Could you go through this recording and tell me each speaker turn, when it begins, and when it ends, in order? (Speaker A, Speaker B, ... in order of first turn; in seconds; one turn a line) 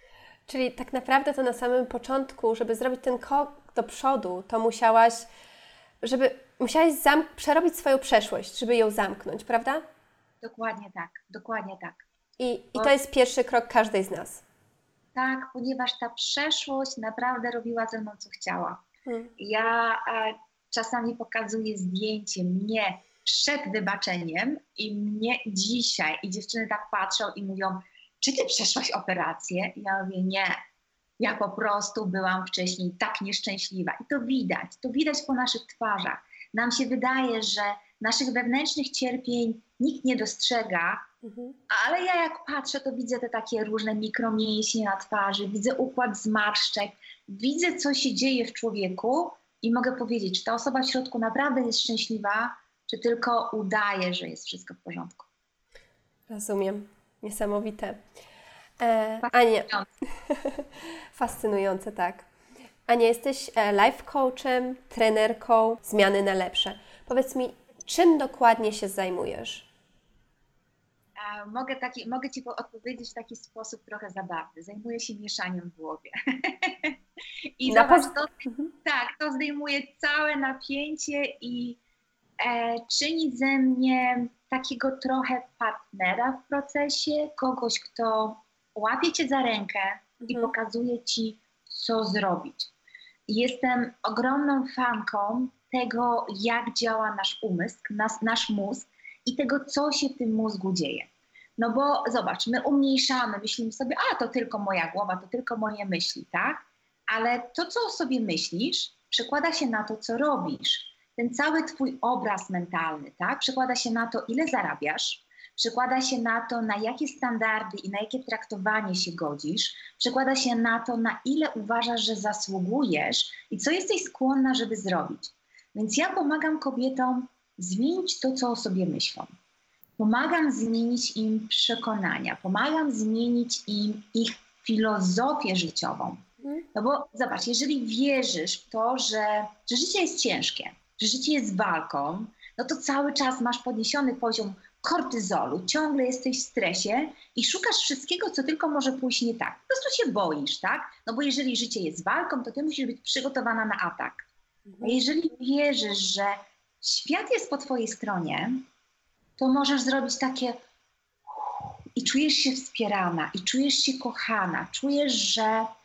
Speaker A: 0.5-5.3
Speaker A: 6.0-9.8
Speaker B: 10.4-12.0
Speaker A: 12.4-14.4
Speaker B: 15.1-18.8
Speaker B: 19.4-30.5
Speaker B: 31.2-41.1
Speaker A: 41.2-41.6
Speaker B: 41.7-55.3
Speaker A: 56.3-58.0
Speaker A: 58.8-62.3
Speaker B: 59.2-59.9
Speaker A: 62.9-69.7
Speaker B: 71.2-77.0
Speaker B: 77.6-81.8
Speaker A: 77.7-78.7
Speaker B: 82.4-92.7
Speaker A: 90.2-90.5
Speaker B: 93.3-129.3
Speaker B: 130.0-154.2
Speaker B: 154.8-158.6
Speaker B: 159.4-160.6
Speaker B: 161.2-165.7